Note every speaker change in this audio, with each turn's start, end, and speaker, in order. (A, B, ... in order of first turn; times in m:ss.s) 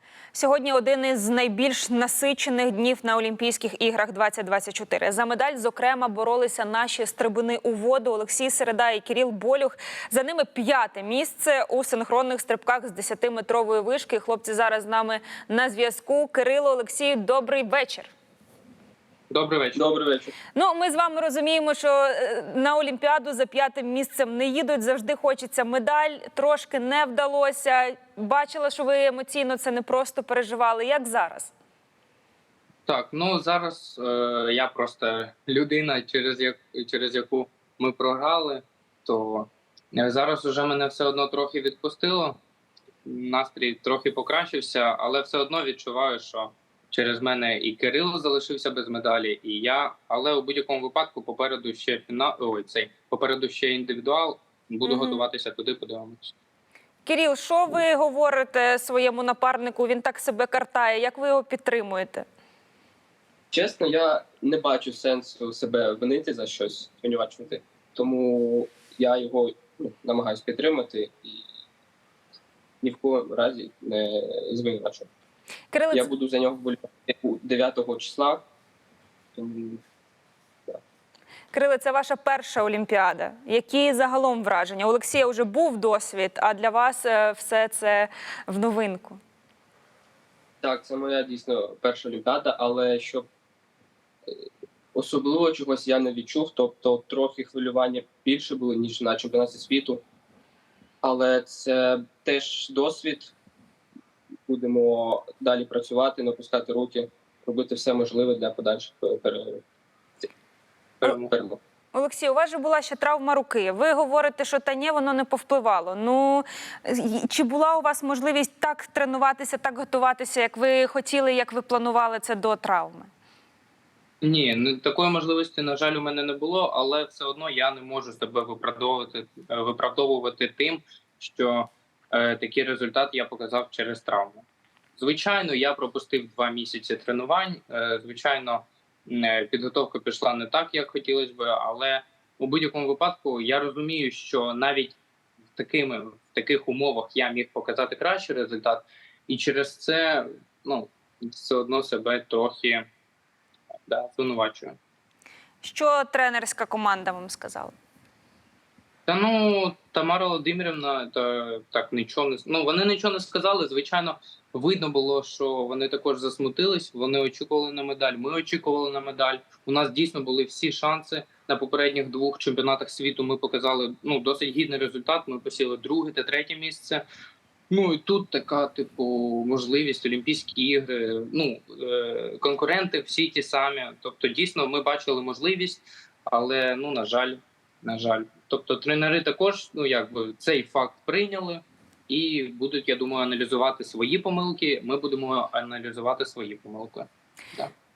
0:00.3-0:18.1 A
0:19.3-0:19.9 B
0:19.8-0:20.3 C
0:20.6-0:31.5 A
0:32.9-0:42.4 B
0:43.0-0:56.3 B
0:54.8-0:55.2 A
0:57.0-1:02.3 A
1:03.5-1:11.5 C
1:12.8-1:15.1 C
1:15.7-1:16.1 A
1:15.9-1:18.4 C
1:19.4-1:19.8 C
1:21.5-1:29.2 A
1:30.6-1:33.3 C
1:34.9-1:40.0 C
1:41.0-1:43.3 C
1:44.5-1:49.6 C
1:51.0-1:51.3 B
1:51.0-1:51.6 C
1:51.9-2:03.1 A
2:04.2-2:14.4 B
2:15.0-2:25.0 B
2:25.6-2:32.9 B
2:33.9-2:34.8 B
2:35.6-2:37.7 A
2:39.1-2:57.0 B
2:57.7-3:17.7 B